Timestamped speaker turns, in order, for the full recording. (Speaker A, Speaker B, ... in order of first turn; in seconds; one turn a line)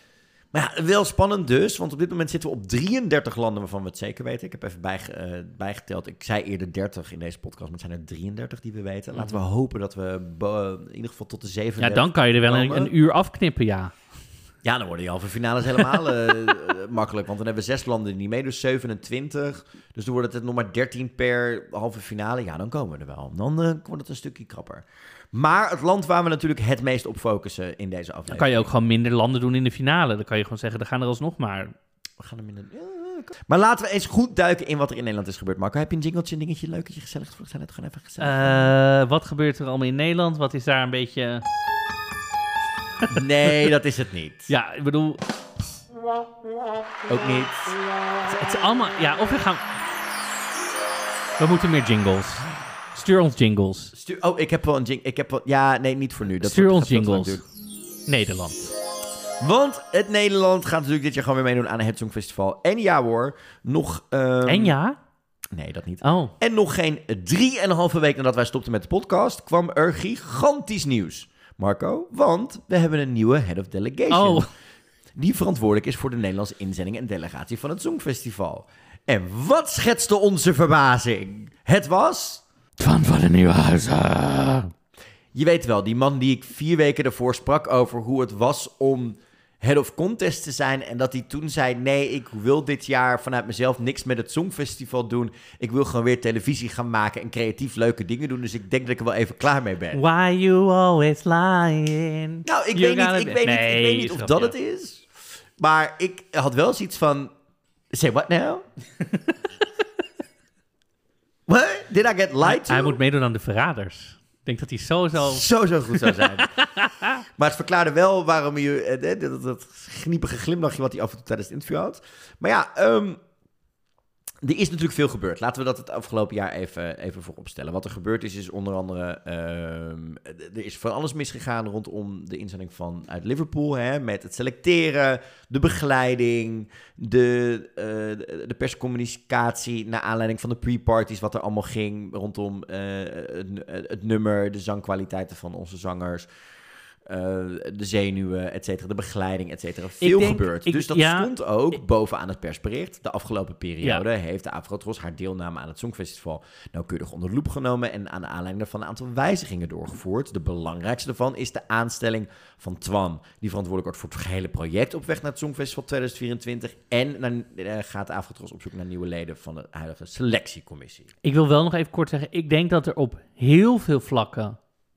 Speaker A: 0.5-12.9
Speaker B: 9.1-9.4
Speaker B: 11.8-13.9
Speaker A: 14.6-28.7
Speaker B: 28.3-31.8
Speaker A: 32.2-38.7
Speaker B: 38.2-41.5
Speaker A: 43.1-44.5
Speaker B: 44.5-45.2
Speaker A: 47.1-47.7
Speaker B: 48.3-49.6
Speaker B: 51.4-53.9
Speaker A: 53.9-57.4
Speaker B: 56.4-57.4
Speaker B: 58.1-58.7
Speaker A: 59.4-64.8
Speaker B: 64.5-65.0
Speaker A: 65.5-74.5
Speaker B: 66.0-66.3
Speaker B: 74.1-74.5
Speaker A: 75.2-82.4
Speaker B: 82.8-84.7
Speaker A: 85.3-100.0
Speaker B: 99.9-104.5
Speaker A: 102.5-107.3
Speaker A: 107.9-108.7
Speaker A: 111.5-113.0
Speaker B: 112.4-117.2
Speaker A: 115.2-116.5
Speaker A: 117.3-123.2
Speaker A: 124.4-146.3
Speaker A: 147.1-171.1
Speaker B: 150.0-151.3
Speaker B: 171.2-174.6